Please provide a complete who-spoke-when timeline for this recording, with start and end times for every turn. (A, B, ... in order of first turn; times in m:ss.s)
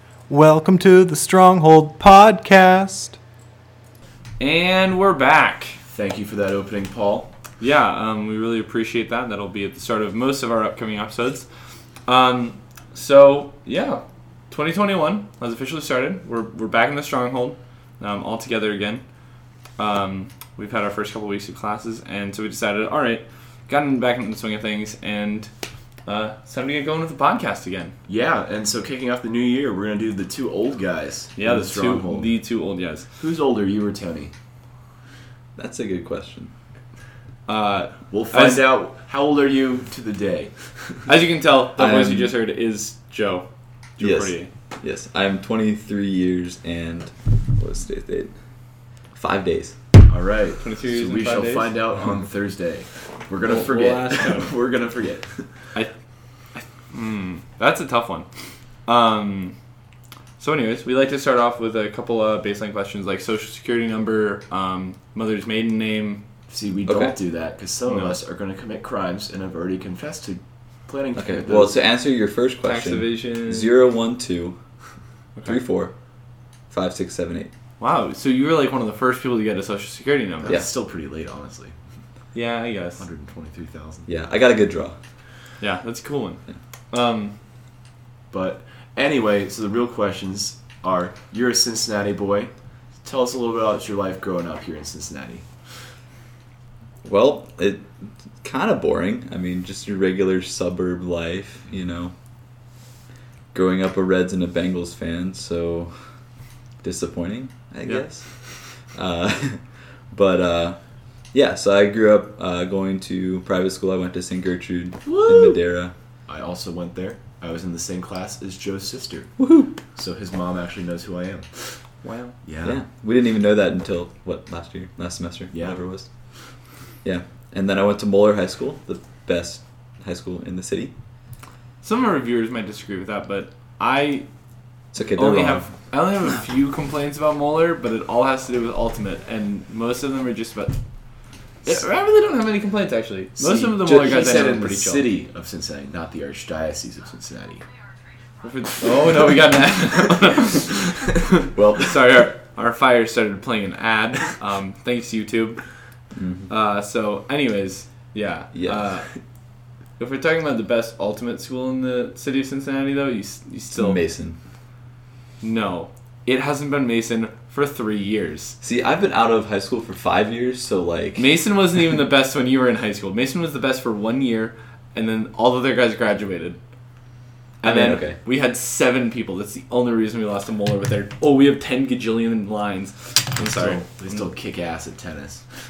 0:00.3-0:03.2 A
0:04.4-0:05.8 B
0:05.9-0:07.3 C
0:07.6-0:11.5 B
0:12.0-0:19.0 B
0:19.8-0:25.5 B
0:26.1-0:27.9 B
0:28.1-0:32.4 C
0:31.4-0:33.1 B
0:33.2-0:34.3 C
0:35.6-0:36.5 D
0:37.5-0:38.7 B
0:38.1-0:41.1 C
0:41.1-0:44.5 B
0:41.8-0:42.3 D
0:44.0-0:48.4 D
0:49.1-0:49.8 D
0:50.1-0:55.5 C
0:50.6-0:51.8 B
0:53.4-0:54.5 B
0:56.6-0:58.3 B
0:58.9-0:59.6 B
1:00.4-1:06.2 B
1:06.5-1:11.8 C
1:06.9-1:07.1 D
1:07.9-1:08.2 B
1:11.2-1:14.6 D
1:12.6-1:13.7 B
1:15.4-1:15.9 D
1:16.7-1:17.5 D
1:17.8-1:20.6 B
1:20.4-1:21.8 C
1:22.4-1:23.0 B
1:23.0-1:24.1 C
1:24.1-1:25.0 D
1:25.6-1:26.4 B
1:26.9-1:27.3 B
1:28.3-1:32.5 C
1:33.0-1:35.5 C
1:37.0-1:42.1 D
1:43.5-1:46.0 D
1:46.8-1:50.8 D
1:51.3-1:55.9 D
1:55.1-1:55.6 C
1:56.3-2:01.5 C
1:59.4-1:59.7 D
2:02.0-2:02.4 B
2:02.4-2:02.8 C
2:02.6-2:06.1 D
2:05.5-2:05.8 C
2:07.0-2:10.9 D
2:11.8-2:14.3 B
2:14.9-2:15.7 D
2:15.2-2:20.8 B
2:21.6-2:25.1 B
2:23.4-2:27.7 C
2:23.9-2:24.2 D
2:28.4-2:30.9 B
2:31.6-2:32.0 D
2:31.7-2:35.6 B
2:36.1-2:36.5 D
2:36.5-2:39.1 B
2:38.5-2:38.9 D
2:40.0-2:44.0 B
2:43.7-2:44.4 D
2:45.4-2:48.6 B
2:48.6-2:51.4 D
2:51.2-2:56.6 B
2:57.6-3:04.2 B
2:57.6-2:58.2 D
3:03.5-3:05.5 C